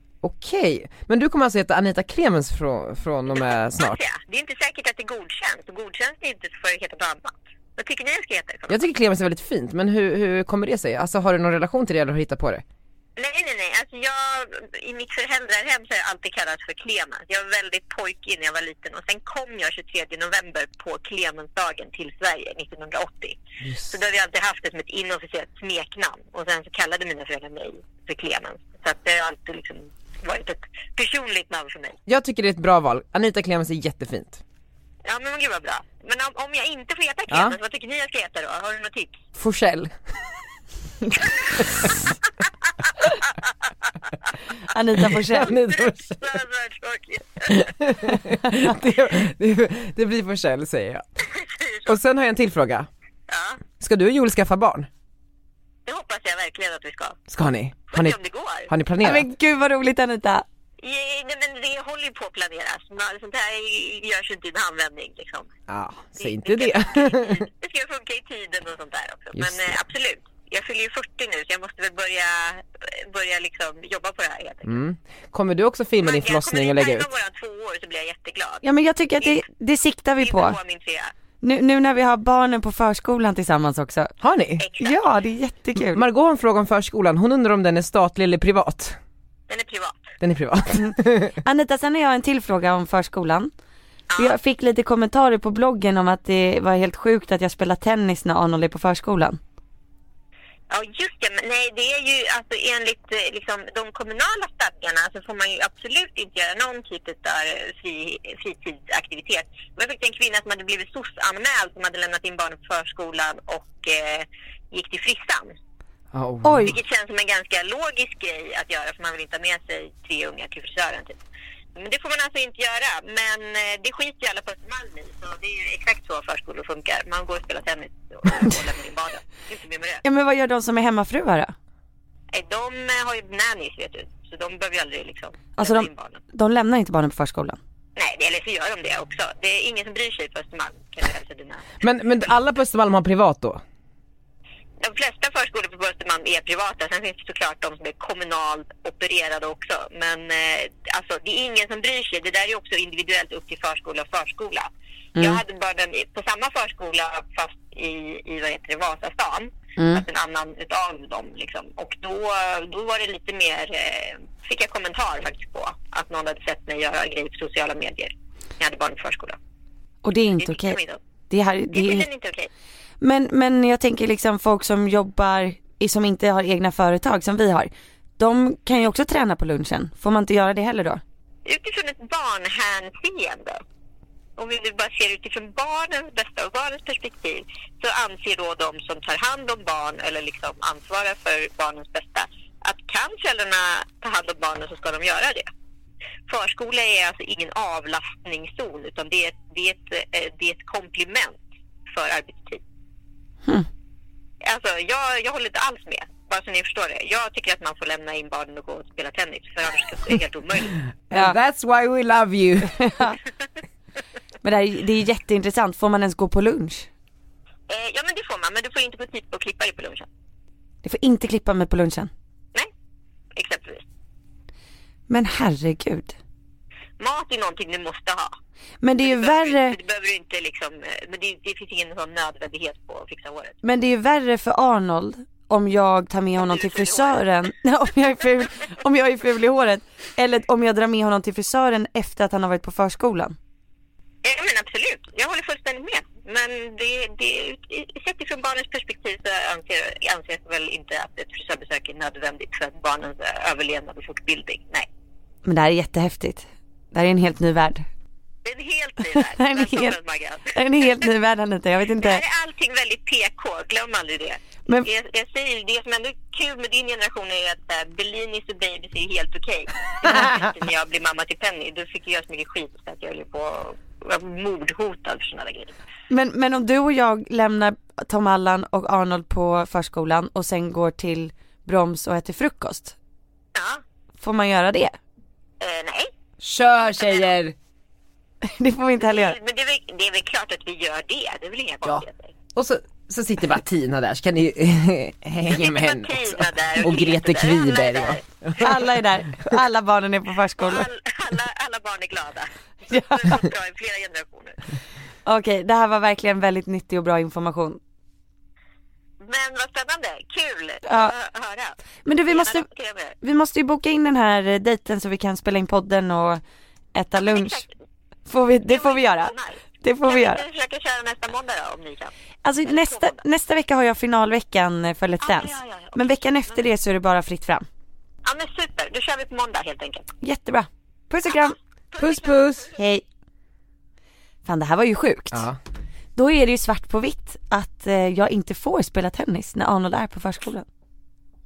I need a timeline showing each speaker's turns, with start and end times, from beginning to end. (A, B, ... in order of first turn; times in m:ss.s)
0:00.2-0:04.0 A
0:03.3-0:08.8 B
0:08.7-0:12.6 A
0:13.2-0:32.0 B
0:23.6-0:24.0 A
0:32.1-0:34.4 A
0:35.0-0:39.2 B
0:37.3-0:37.6 A
0:39.4-0:39.9 A
0:41.4-0:42.0 A
0:44.7-0:45.6 C
0:45.2-0:46.4 A
0:45.5-0:47.7 B
0:47.5-0:51.0 A
0:51.4-0:51.8 B
0:51.8-0:52.9 A
0:53.3-0:53.6 B
0:53.8-0:54.9 A
0:55.9-0:57.2 B
0:57.3-0:58.2 A
0:57.9-0:58.7 B
0:58.7-0:59.3 A
0:59.0-1:00.5 C
1:00.8-1:05.5 B
1:05.7-1:07.5 A
1:06.2-1:14.8 B
1:09.4-1:09.8 A
1:14.6-1:17.1 A
1:16.0-1:18.6 B
1:18.6-1:20.6 C
1:20.2-1:21.1 B
1:21.4-1:24.1 C
1:24.2-1:24.6 A
1:24.6-1:25.1 B
1:24.8-1:26.0 C
1:25.8-1:29.0 A
1:29.5-1:30.1 B
1:30.2-1:31.4 A
1:30.8-1:33.5 C
1:34.1-1:34.4 B
1:34.2-1:39.4 C
1:40.7-1:55.6 B
1:56.1-1:56.8 A
1:56.4-1:56.8 C
1:56.6-2:01.2 B
2:01.8-2:10.0 B
2:10.0-2:11.5 C
2:12.3-2:16.2 B
2:15.6-2:17.6 C
2:18.0-2:21.7 B
2:21.8-2:23.6 A
2:24.8-2:49.4 B
2:35.2-2:35.4 C
2:39.8-2:40.0 C
2:50.0-2:50.8 C
2:50.4-2:51.0 B
2:51.3-2:52.1 C
2:51.7-2:52.5 B
2:53.0-3:01.0 C
3:01.5-3:03.6 B
3:04.4-3:15.5 B
3:16.3-3:22.6 B
3:24.4-3:30.8 B
3:31.1-3:32.9 A
3:32.6-3:33.2 C
3:34.4-3:36.9 C
3:37.7-3:40.1 B
3:40.8-3:42.1 C
3:43.4-3:43.8 B
3:45.1-3:46.2 C
3:47.0-3:48.4 B
3:48.8-3:49.8 C
3:49.0-3:53.6 B
3:53.6-4:03.4 C
3:56.4-3:57.2 B
4:04.2-4:14.9 B
4:15.4-4:17.9 C
4:18.4-4:21.0 B
4:19.1-4:20.0 C
4:20.5-4:22.2 C
4:22.0-4:35.8 B
4:36.1-4:43.0 C
4:43.6-4:43.8 B
4:44.2-4:45.0 C
4:45.6-4:46.1 B
4:46.4-4:47.6 A
4:46.9-4:47.3 B
4:48.4-4:49.4 C
4:49.0-4:52.3 B
4:52.6-4:58.9 A
4:55.5-4:58.2 B
4:58.6-5:00.9 C
5:00.6-5:04.8 B
5:02.9-5:03.4 C
5:05.3-5:07.8 C
5:09.2-5:13.2 B
5:10.9-5:11.1 C
5:12.1-5:12.7 C
5:13.2-5:16.4 C
5:16.9-5:17.7 C
5:17.2-5:17.7 B
5:18.3-5:20.4 C
5:18.7-5:22.1 B
5:22.4-5:27.7 C
5:22.6-5:23.2 B
5:25.2-5:26.6 B
5:28.2-5:30.1 B
5:30.2-5:31.6 C
5:31.9-5:32.8 B
5:32.0-5:32.7 A
5:32.8-5:33.0 C
5:34.4-5:35.5 C
5:35.3-5:35.6 A
5:36.2-5:40.7 C